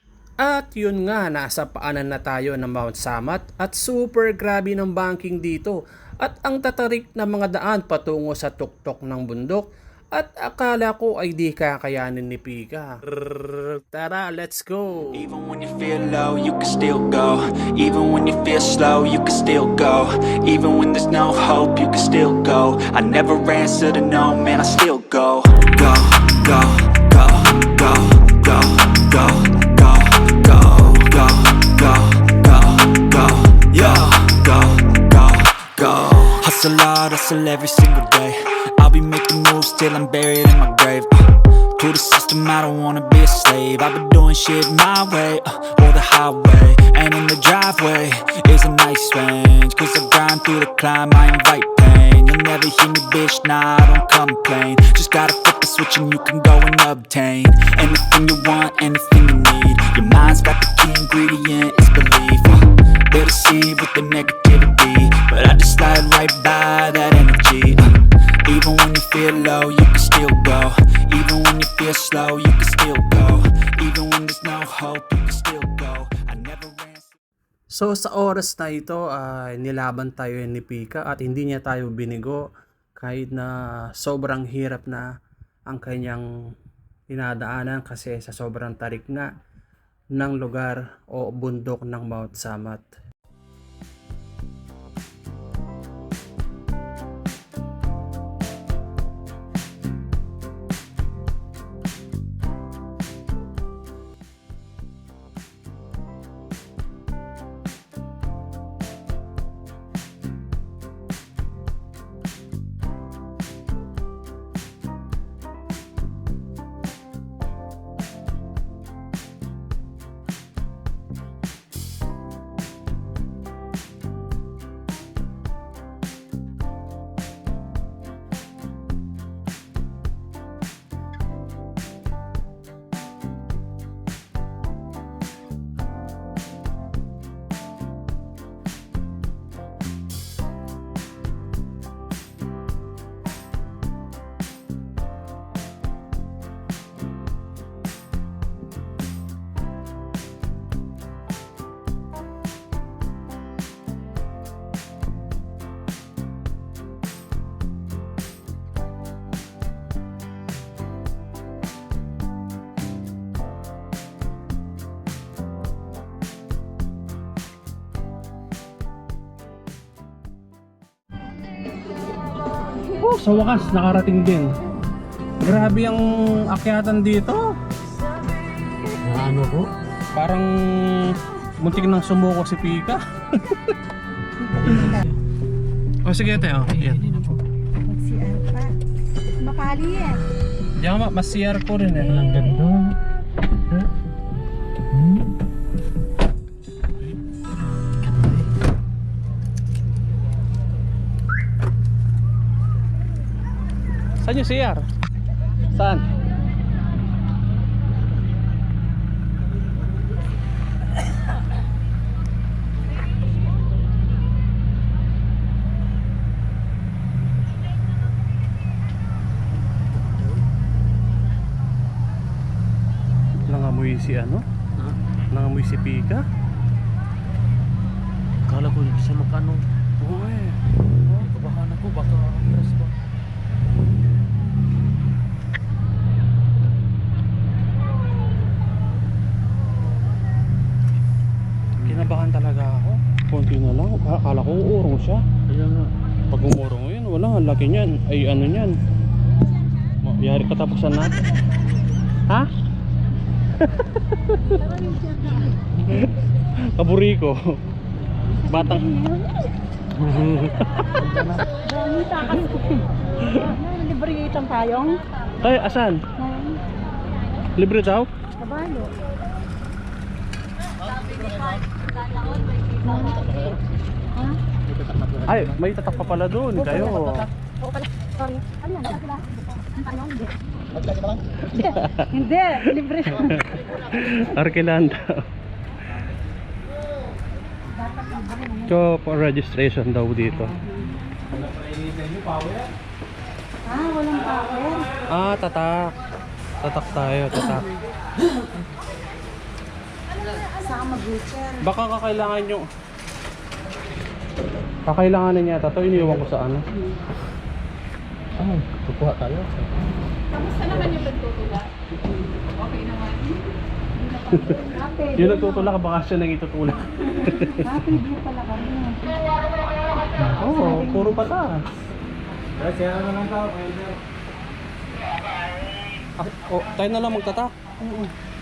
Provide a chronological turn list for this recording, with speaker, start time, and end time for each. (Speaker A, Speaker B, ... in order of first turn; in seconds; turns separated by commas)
Speaker A: 0.4-15.3, Speaker B: 15.1-67.9, Speaker B: 68.5-77.2, Speaker A: 77.7-85.1, Speaker A: 85.7-86.3, Speaker A: 87.1-89.3, Speaker A: 90.2-92.8, Speaker A: 173.0-174.5, Speaker A: 175.4-177.5, Speaker C: 179.0-179.7, Speaker A: 180.2-183.8, Speaker D: 184.5-185.0, Speaker C: 184.7-185.0, Speaker A: 186.0-187.4, Speaker C: 186.8-187.3, Speaker D: 187.9-188.7, Speaker D: 189.4-190.2, Speaker A: 190.8-192.2, Speaker C: 192.1-193.0, Speaker C: 194.9-195.2, Speaker C: 198.1-198.5, Speaker A: 204.2-204.9, Speaker A: 205.7-206.1, Speaker C: 220.0-220.4, Speaker A: 223.5-224.4, Speaker A: 225.3-226.2, Speaker C: 228.5-229.6, Speaker A: 230.0-230.6, Speaker C: 231.2-233.0, Speaker C: 241.8-242.1, Speaker A: 241.8-245.2, Speaker C: 245.5-245.9, Speaker A: 246.3-248.8, Speaker A: 250.0-251.3, Speaker A: 253.6-254.4, Speaker D: 254.4-256.1, Speaker A: 255.9-257.6, Speaker D: 258.3-259.3, Speaker A: 258.5-258.9, Speaker C: 260.0-261.5, Speaker D: 261.6-265.0, Speaker A: 263.2-263.5, Speaker A: 265.4-266.0, Speaker D: 266.2-266.6, Speaker A: 267.6-268.1, Speaker D: 268.4-268.9, Speaker D: 272.3-273.5, Speaker D: 274.1-274.4, Speaker C: 274.7-275.5, Speaker A: 275.2-277.3, Speaker D: 276.6-277.3, Speaker D: 278.0-280.3, Speaker D: 281.4-284.2, Speaker A: 281.6-282.1, Speaker A: 283.1-285.3, Speaker D: 287.7-288.8, Speaker A: 288.7-290.6, Speaker D: 290.6-290.9, Speaker C: 291.8-292.2, Speaker D: 293.6-294.9, Speaker A: 295.1-295.9, Speaker A: 296.6-297.7, Speaker D: 300.4-301.7, Speaker A: 301.6-302.7, Speaker A: 304.9-306.6, Speaker C: 308.4-309.7, Speaker E: 310.3-311.7, Speaker E: 312.4-313.4, Speaker E: 314.1-314.5, Speaker D: 314.3-315.8, Speaker A: 315.2-317.9, Speaker D: 317.2-319.2, Speaker A: 320.3-321.7, Speaker D: 320.3-321.2, Speaker C: 322.6-323.9, Speaker A: 326.2-327.5, Speaker D: 327.8-328.1